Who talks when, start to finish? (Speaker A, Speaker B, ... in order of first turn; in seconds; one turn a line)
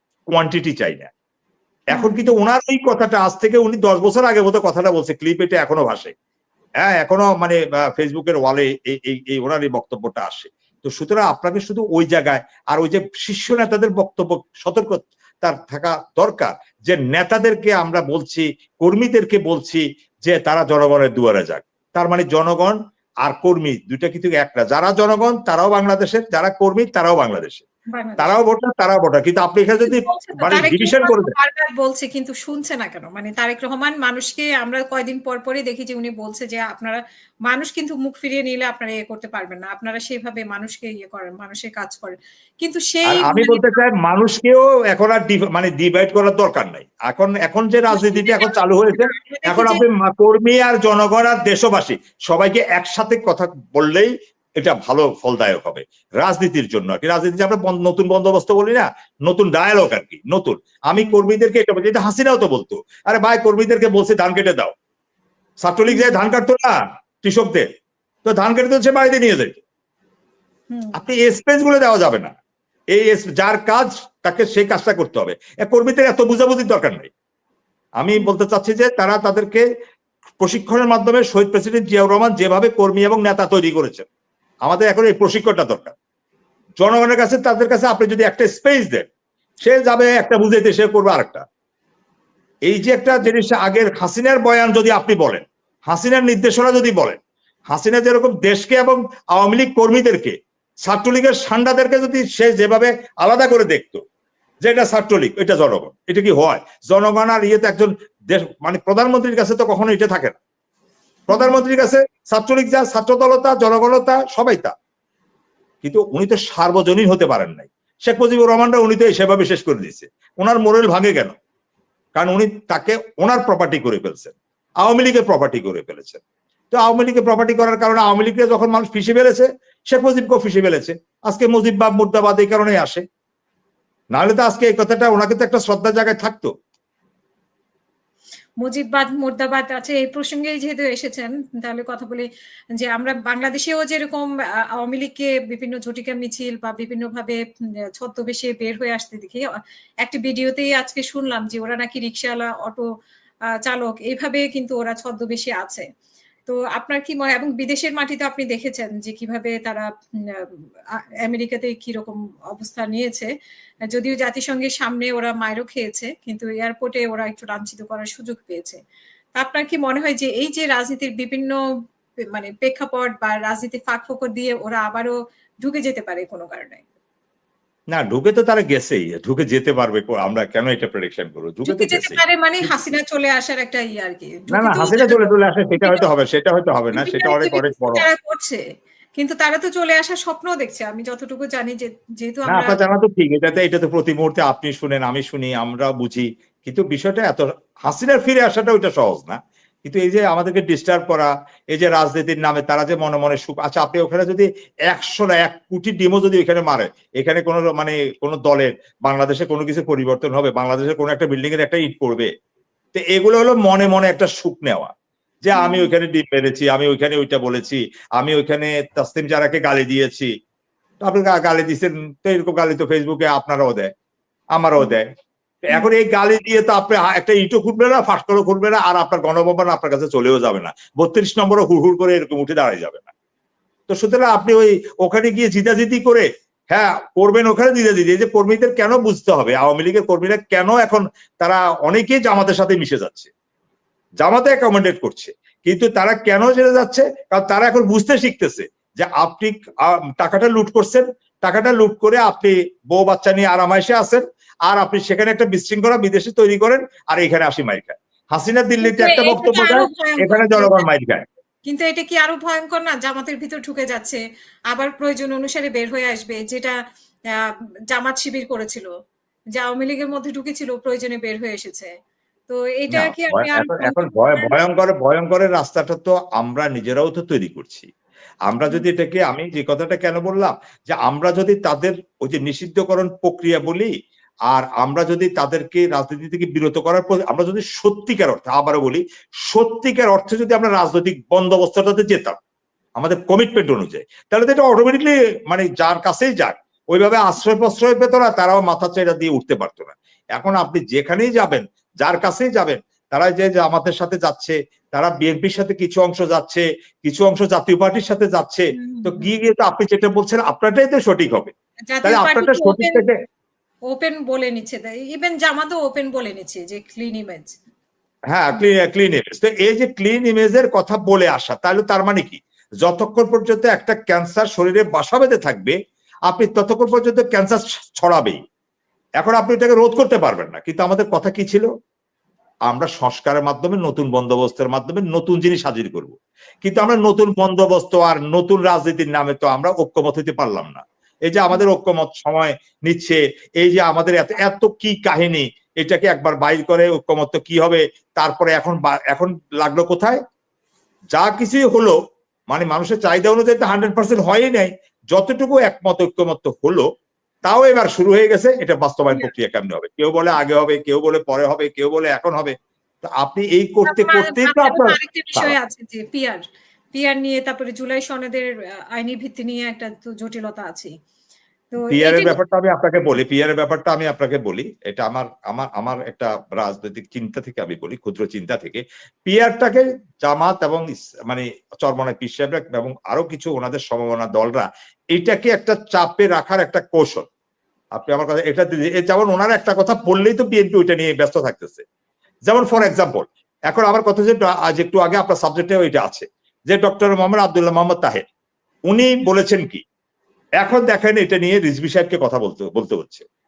Speaker A: 0.3-1.1
Speaker A: 1.9-6.1
Speaker B: 1.9-2.3
Speaker A: 6.8-27.6
Speaker B: 27.9-28.4
Speaker A: 28.2-31.3
Speaker B: 29.8-43.8
Speaker A: 43.1-64.7
Speaker B: 47.9-49.8
Speaker B: 61.0-61.2
Speaker A: 65.6-67.7
Speaker B: 65.9-66.2
Speaker A: 68.2-69.6
Speaker B: 70.7-71.0
Speaker A: 70.9-72.4
Speaker A: 72.9-77.1
Speaker A: 78.0-79.6
Speaker A: 80.4-84.1
Speaker A: 84.6-86.0
Speaker A: 86.8-89.1
Speaker A: 89.6-91.4
Speaker A: 92.7-100.3
Speaker A: 100.8-104.0
Speaker A: 104.6-110.4
Speaker A: 111.3-114.7
Speaker B: 111.3-111.6
Speaker A: 115.8-121.3
Speaker A: 122.2-133.0
Speaker A: 134.1-136.5
Speaker B: 138.6-147.4
Speaker B: 147.9-149.5
Speaker B: 150.0-152.8
Speaker B: 153.6-155.9
Speaker B: 156.5-163.3
Speaker B: 163.9-168.8
Speaker B: 169.3-171.5
Speaker B: 172.3-176.8
Speaker A: 177.9-182.2
Speaker B: 181.7-186.0
Speaker A: 184.5-188.0
Speaker B: 186.9-188.6
Speaker B: 189.2-192.8
Speaker A: 192.5-212.3
Speaker A: 212.9-214.9
Speaker A: 215.4-220.3
Speaker B: 215.5-215.9
Speaker A: 221.0-223.9
Speaker A: 224.6-225.1
Speaker A: 225.6-233.1
Speaker A: 233.9-243.3
Speaker A: 244.2-261.2
Speaker B: 258.8-260.9
Speaker B: 261.6-266.7
Speaker B: 267.3-268.9
Speaker B: 269.5-271.9
Speaker B: 272.5-274.6
Speaker A: 272.9-277.9
Speaker A: 278.5-283.9
Speaker A: 284.5-292.4
Speaker A: 293.0-311.5
Speaker B: 308.7-309.3
Speaker B: 311.9-313.0
Speaker A: 312.0-313.1
Speaker B: 313.9-317.6
Speaker A: 318.3-325.8
Speaker A: 326.3-328.4
Speaker A: 329.2-331.7
Speaker A: 332.7-350.2
Speaker A: 351.1-351.9
Speaker A: 352.5-356.9
Speaker A: 357.4-365.5
Speaker B: 363.9-370.9
Speaker B: 371.7-372.4
Speaker A: 371.9-387.3
Speaker A: 387.9-391.8
Speaker A: 392.5-398.2
Speaker A: 398.9-399.8
Speaker A: 400.6-403.2